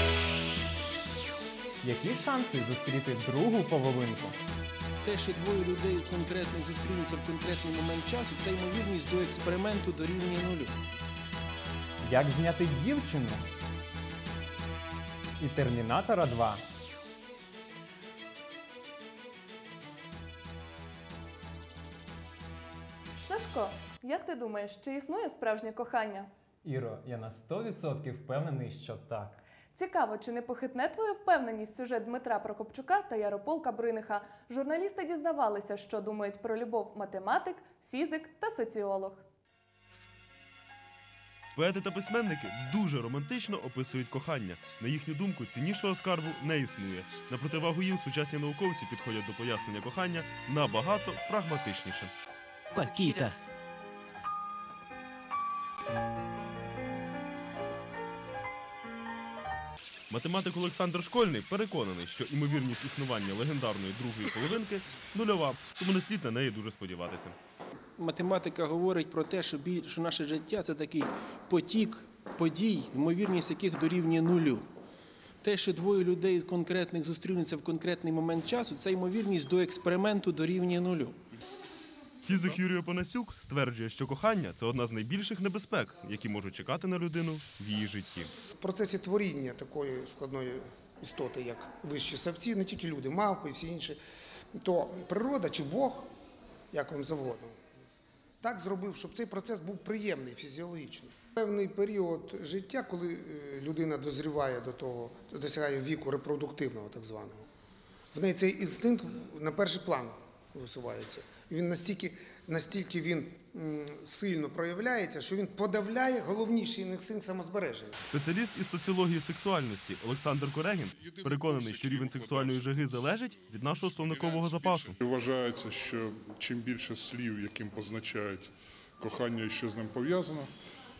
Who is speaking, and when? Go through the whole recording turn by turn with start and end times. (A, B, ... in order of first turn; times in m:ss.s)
0:01.8-0:04.4 A
0:05.0-0:10.7 B
0:12.0-0:13.5 A
0:15.4-0:16.6 A
0:23.2-0:26.3 C
0:26.6-0:29.4 A
0:29.7-0:39.2 C
0:41.5-0:52.1 D
0:52.8-0:53.3 B
1:00.1-1:07.4 D
1:08.0-1:14.7 B
1:15.4-1:21.2 B
1:22.2-1:28.3 D
1:28.6-1:34.0 E
1:34.6-1:36.1 E
1:36.7-1:37.7 E
1:38.4-1:47.5 E
1:48.1-1:58.0 E
1:58.1-2:04.9 D
2:01.0-2:03.0 F
2:03.8-2:10.5 F